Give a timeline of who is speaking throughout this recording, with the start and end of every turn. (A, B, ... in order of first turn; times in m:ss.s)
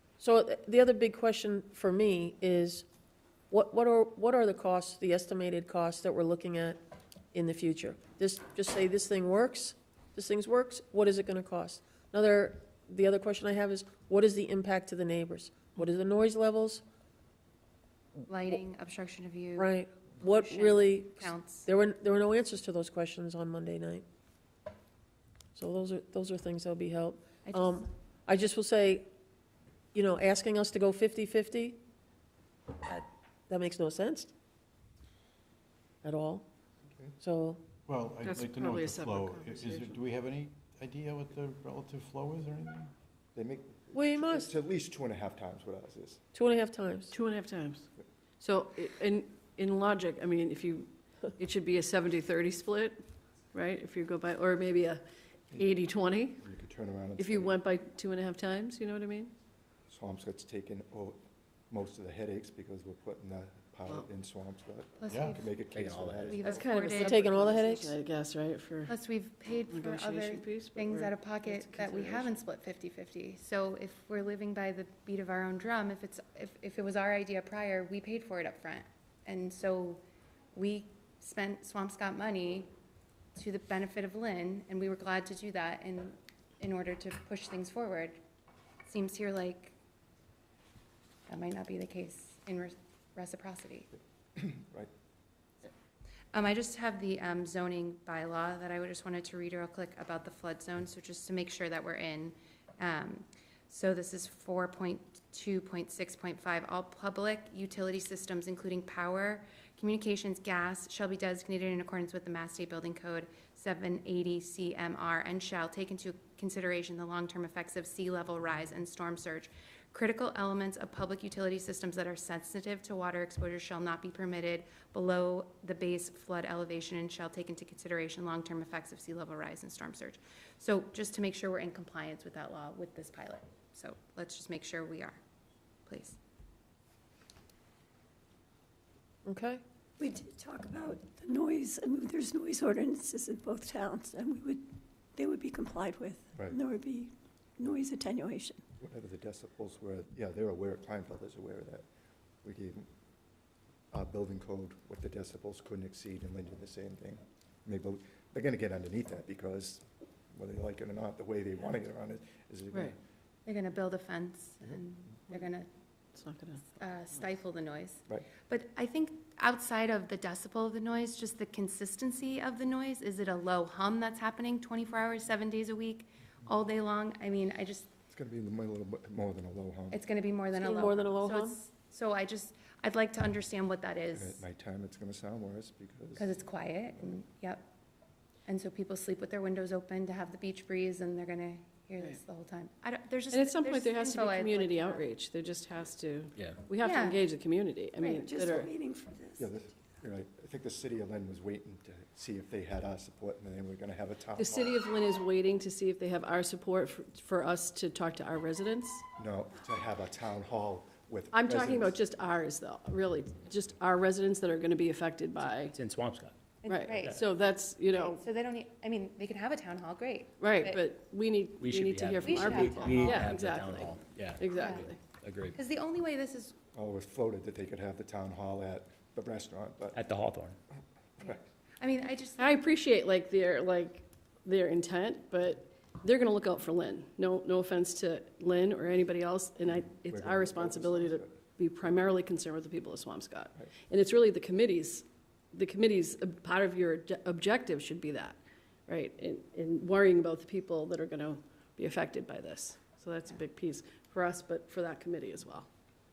0:00.2-0:02.8 A
0:03.5-0:06.8 A
0:07.3-0:16.8 A
0:18.3-0:21.7 B
0:19.6-0:24.0 A
0:25.5-0:29.0 A
0:27.4-0:27.8 B
0:29.9-0:31.8 A
0:32.8-0:34.3 A
0:36.0-0:36.4 A
0:37.2-0:37.6 A
0:37.9-0:42.9 C
0:38.2-0:40.0 D
0:43.3-0:46.2 E
0:43.9-0:44.5 A
0:46.3-0:47.1 A
0:47.1-0:47.9 D
0:48.4-0:53.0 D
0:53.5-0:55.0 D
0:55.5-0:56.4 D
0:56.3-0:57.6 E
0:57.2-0:59.3 D
0:59.9-1:06.6 E
1:05.0-1:05.7 B
1:05.1-1:05.4 C
1:05.7-1:06.4 F
1:06.3-1:07.6 B
1:06.4-1:09.0 D
1:06.9-1:08.0 A
1:08.9-1:20.0 B
1:09.7-1:12.4 D
1:20.5-1:22.7 B
1:23.3-1:28.2 B
1:28.9-1:29.7 B
1:31.3-1:33.9 B
1:34.4-1:34.9 E
1:36.3-2:15.2 B
2:15.9-2:16.2 B
2:19.2-2:19.6 A
2:20.0-2:28.6 G
2:28.8-2:31.8 E
2:32.4-2:32.9 E
2:33.9-2:43.0 E
2:43.4-2:45.7 B
2:46.2-2:46.7 D
2:46.7-2:57.9 B
2:58.1-3:00.0 E
2:59.9-3:04.4 B
3:00.5-3:01.6 A
3:04.1-3:06.3 E
3:06.2-3:07.7 B
3:08.5-3:15.1 B
3:13.3-3:18.7 D
3:16.4-3:16.6 F
3:16.8-3:17.2 B
3:18.0-3:18.3 B
3:18.2-3:19.5 G
3:19.4-3:24.8 E
3:24.4-3:29.0 D
3:29.2-3:32.0 E
3:31.3-3:35.8 D
3:35.4-3:37.2 F
3:36.6-3:37.3 B
3:36.6-3:38.2 D
3:37.9-3:40.8 B
3:40.4-3:45.0 D
3:41.6-3:45.6 F
3:42.2-3:43.3 B
3:44.5-3:44.9 B
3:45.5-3:46.6 B
3:46.7-3:50.0 E
3:49.9-3:50.6 F
3:51.2-3:51.5 E
3:51.2-3:52.6 B
3:52.4-4:15.7 D
3:59.7-4:01.4 E